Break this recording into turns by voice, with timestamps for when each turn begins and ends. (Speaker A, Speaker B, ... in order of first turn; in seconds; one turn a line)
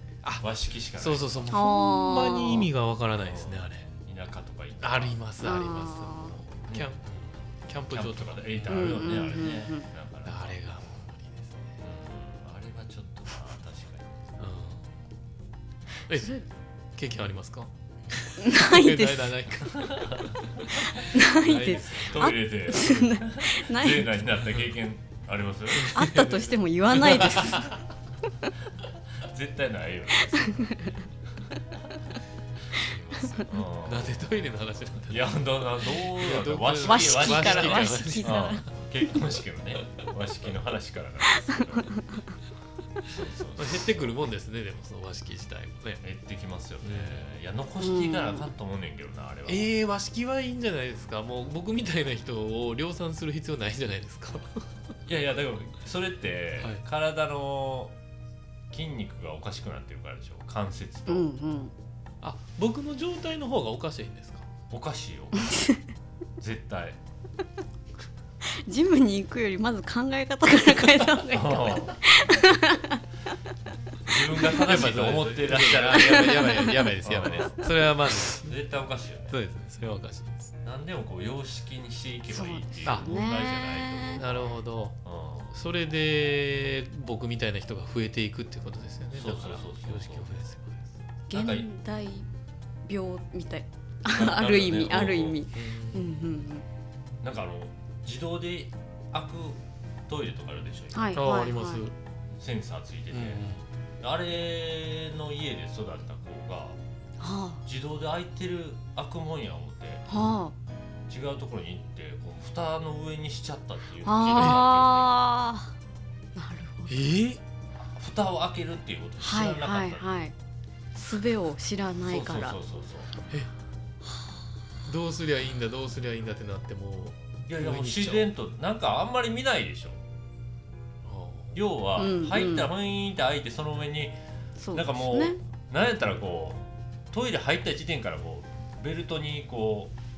Speaker A: 0.4-1.6
Speaker B: 1.0-3.9
Speaker C: 1.5-2.7
Speaker A: 3.2-5.2
Speaker B: 4.8-9.0
Speaker C: 5.4-6.4
Speaker A: 7.9-10.6
Speaker C: 8.7-9.9
Speaker B: 10.2-11.7
Speaker A: 11.8-14.3
Speaker B: 14.4-14.9
Speaker B: 16.1-16.4
Speaker C: 16.1-16.5
Speaker B: 17.0-22.3
Speaker C: 18.4-19.4
Speaker A: 19.7-20.6
Speaker C: 20.9-24.1
Speaker A: 21.7-25.9
Speaker B: 25.7-27.6
Speaker C: 25.9-27.8
Speaker A: 29.2-31.1
Speaker C: 30.3-31.0
Speaker B: 32.7-35.4
Speaker A: 33.5-34.2
Speaker A: 35.1-42.0
Speaker B: 36.0-38.6
Speaker C: 36.8-38.7
Speaker C: 41.5-42.0
Speaker A: 43.1-44.1
Speaker B: 43.6-46.0
Speaker A: 46.0-49.7
Speaker B: 46.8-47.2
Speaker C: 47.8-48.5
Speaker B: 49.5-54.6
Speaker A: 55.1-58.0
Speaker A: 58.7-61.3
Speaker C: 61.1-61.7
Speaker B: 62.2-64.5
Speaker A: 64.7-65.6
Speaker C: 65.4-65.8
Speaker A: 66.4-67.0
Speaker C: 68.5-73.0
Speaker A: 71.3-72.0
Speaker A: 74.0-77.7
Speaker B: 74.5-78.5
Speaker C: 75.8-76.9
Speaker A: 78.2-79.4
Speaker B: 79.3-80.5
Speaker A: 80.6-84.5
Speaker C: 82.3-84.3
Speaker B: 84.2-85.0
Speaker A: 85.0-85.5
Speaker B: 85.5-90.9
Speaker A: 89.1-90.3
Speaker C: 91.3-92.3
Speaker A: 91.3-91.7
Speaker C: 92.9-96.7
Speaker A: 94.1-95.4
Speaker B: 95.5-96.2
Speaker A: 97.2-101.2
Speaker C: 100.9-101.9
Speaker B: 101.2-101.9
Speaker A: 102.3-103.4
Speaker B: 103.1-103.6
Speaker A: 104.0-106.8
Speaker C: 107.2-107.6
Speaker A: 107.7-110.1
Speaker C: 110.1-110.5
Speaker A: 111.1-115.1
Speaker C: 114.0-115.7
Speaker B: 114.3-114.6
Speaker C: 116.3-117.0
Speaker B: 116.9-117.4
Speaker A: 117.8-120.1
Speaker C: 119.2-120.3
Speaker C: 121.0-122.6
Speaker A: 122.1-123.1
Speaker B: 124.8-128.3
Speaker A: 127.5-130.0
Speaker B: 131.0-131.6
Speaker A: 131.6-134.2
Speaker C: 132.0-132.7
Speaker C: 134.6-135.4
Speaker A: 134.7-139.9